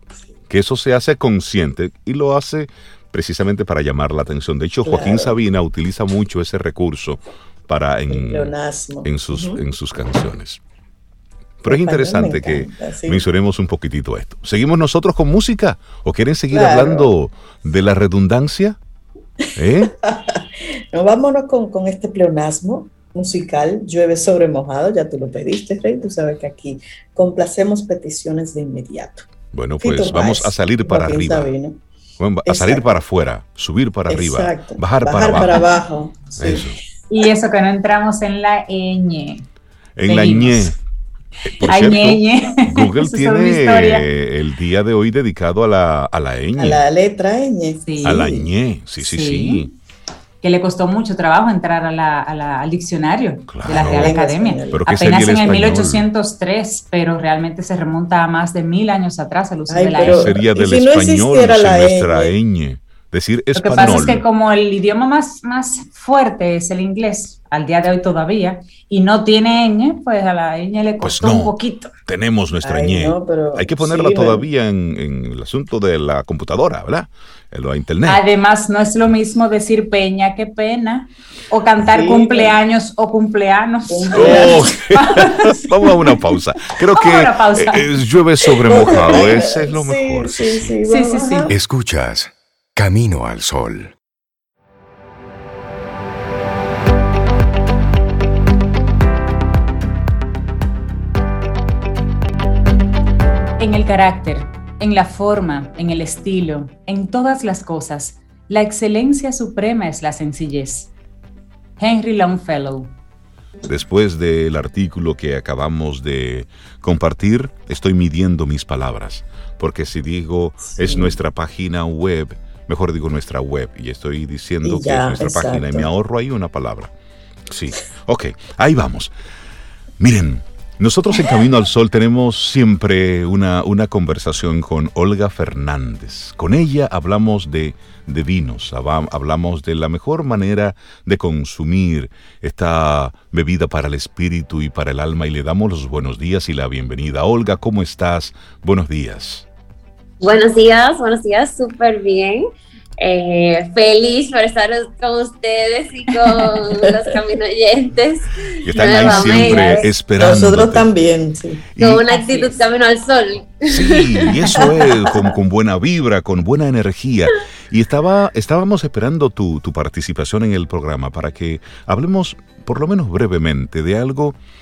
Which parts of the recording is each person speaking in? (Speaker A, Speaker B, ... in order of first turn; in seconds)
Speaker A: 0.5-8.5, 9.0-10.6, 11.6-18.8, 19.6-19.9, 29.5-31.5, 32.2-35.6, 36.4-36.8, 40.0-40.8, 41.5-46.8, 48.0-49.7, 53.5-54.2, 54.7-56.0, 60.0-64.2, 71.0-71.5, 72.0-78.2, 84.1-90.8, 113.7-126.9, 127.5-129.1, 130.0-149.4, 158.6-160.9, 161.8-162.1, 163.7-174.3
Speaker B: 4.8-5.3, 8.1-9.6, 11.6-13.2, 16.5-17.1, 20.0-29.3, 29.8-31.8, 32.4-32.9, 34.1-36.7, 46.5-48.5, 53.7-54.8, 59.7-62.3, 72.6-74.5, 81.8-82.5, 83.9-84.6, 88.7-91.5, 120.7-121.2, 124.6-125.9, 160.2-161.7
Speaker C: 37.1-39.5, 40.1-40.7, 41.6-44.0, 47.9-48.2, 49.0-49.7, 50.4-60.4, 63.5-71.9, 78.0-86.2, 86.9-87.9, 90.9-91.5, 103.6-110.9, 111.8-112.9, 159.0-159.8, 162.1-162.6
Speaker D: 91.5-93.9
Speaker E: 150.2-152.5, 153.0-159.9, 161.8-164.5